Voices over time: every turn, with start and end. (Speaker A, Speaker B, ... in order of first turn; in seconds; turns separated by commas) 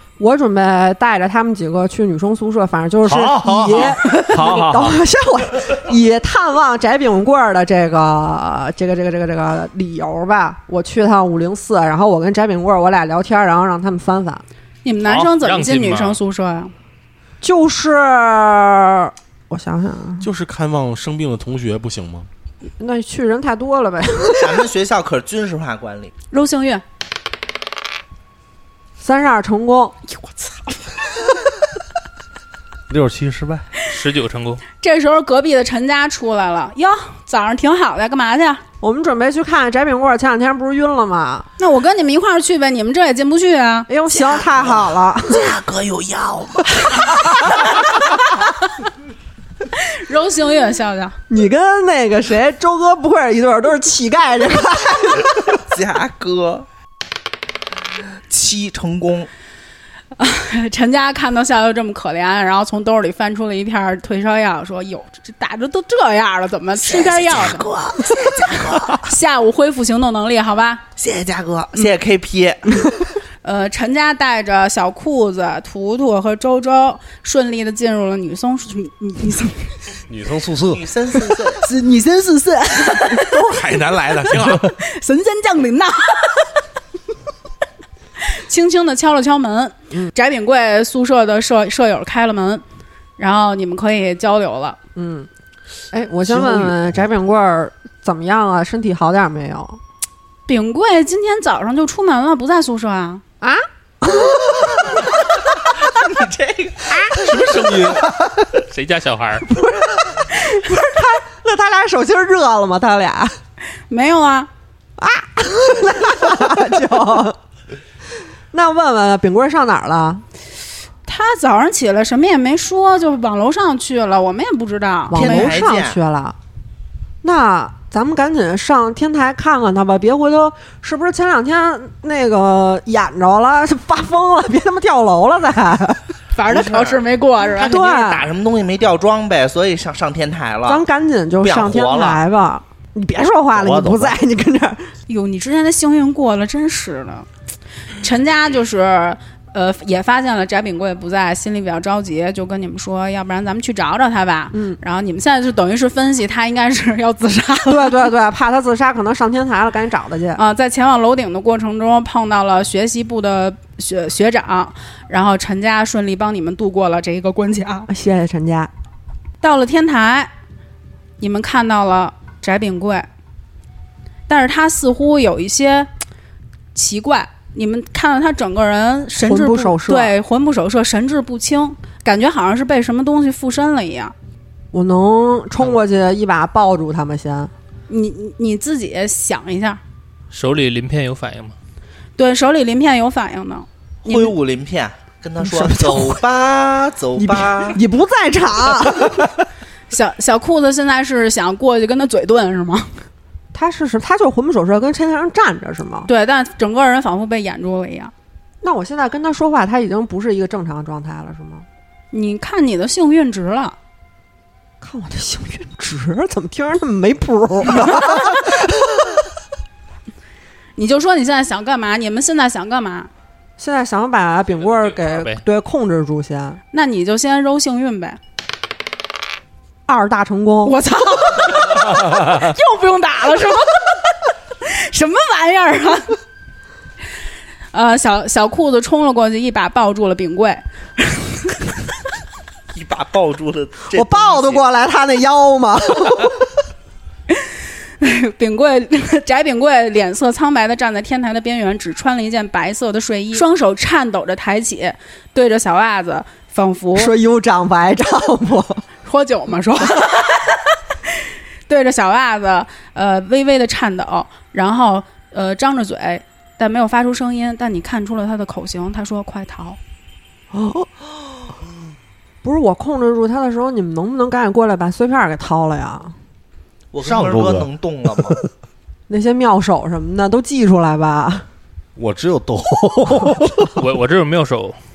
Speaker A: 0.2-14.4, Speaker B: 3.0-5.0, Speaker C: 14.8-16.7, Speaker D: 15.0-16.2, Speaker A: 17.4-20.3, Speaker E: 20.2-22.3, Speaker A: 22.8-24.6, Speaker F: 24.3-26.1, Speaker C: 26.3-26.8, Speaker A: 29.0-29.9, Speaker C: 30.1-30.8, Speaker B: 32.9-33.6, Speaker D: 33.8-34.6, Speaker C: 34.7-38.6, Speaker A: 38.8-41.5, Speaker C: 41.6-43.9, Speaker A: 43.9-45.5, Speaker F: 45.3-47.5, Speaker C: 49.7-51.1, Speaker A: 51.3-55.6, Speaker F: 55.6-56.6, Speaker F: 58.3-59.3, Speaker C: 60.2-67.7, Speaker F: 66.8-69.1, Speaker C: 68.2-70.8, Speaker F: 71.0-72.9, Speaker C: 73.4-79.8, Speaker B: 80.1-80.8, Speaker F: 80.7-81.6, Speaker C: 81.6-83.4, Speaker E: 83.2-84.7, Speaker C: 84.7-86.5, Speaker C: 88.3-92.6, Speaker C: 93.2-94.8, Speaker A: 94.9-95.3, Speaker A: 95.9-99.8, Speaker B: 96.3-96.8, Speaker C: 100.5-103.2, Speaker A: 103.4-105.0, Speaker F: 105.8-107.2, Speaker E: 107.2-108.0, Speaker B: 107.5-107.9, Speaker D: 108.7-109.5, Speaker A: 109.4-113.3, Speaker C: 113.9-114.5, Speaker A: 115.0-117.4, Speaker A: 118.5-120.2, Speaker C: 121.0-125.5, Speaker A: 125.1-126.3, Speaker F: 125.1-126.0, Speaker A: 127.2-136.1, Speaker C: 136.3-137.7, Speaker F: 136.5-140.8, Speaker A: 137.6-138.3, Speaker A: 140.6-144.9, Speaker F: 141.4-142.2, Speaker B: 143.5-144.2, Speaker C: 145.1-147.3, Speaker C: 148.0-158.0, Speaker A: 154.5-154.8, Speaker A: 157.7-160.4, Speaker C: 160.3-167.9, Speaker A: 167.9-168.7, Speaker C: 169.4-170.3, Speaker C: 171.2-173.1, Speaker C: 174.3-175.9, Speaker C: 176.7-184.1, Speaker A: 179.2-180.1, Speaker A: 184.7-187.5, Speaker C: 187.9-189.8, Speaker D: 190.3-191.6, Speaker C: 192.2-194.3, Speaker F: 194.0-197.8, Speaker A: 195.4-196.2, Speaker A: 197.2-199.3, Speaker C: 199.9-203.0, Speaker A: 203.5-206.1, Speaker C: 206.1-208.1, Speaker A: 208.6-211.7, Speaker C: 212.1-213.8, Speaker A: 214.8-219.2, Speaker C: 220.8-223.1, Speaker A: 223.6-226.6, Speaker D: 224.7-225.4, Speaker C: 226.7-228.2, Speaker A: 229.9-230.8, Speaker C: 230.6-236.2, Speaker C: 237.7-241.6, Speaker F: 242.7-244.6, Speaker A: 243.9-246.5, Speaker C: 247.3-257.1, Speaker A: 256.9-258.8, Speaker C: 259.0-261.1, Speaker C: 261.7-269.8, Speaker A: 270.5-270.9, Speaker A: 272.4-276.1, Speaker F: 276.9-278.4, Speaker B: 277.0-278.4, Speaker A: 279.1-281.5, Speaker B: 281.9-283.8, Speaker D: 283.8-284.8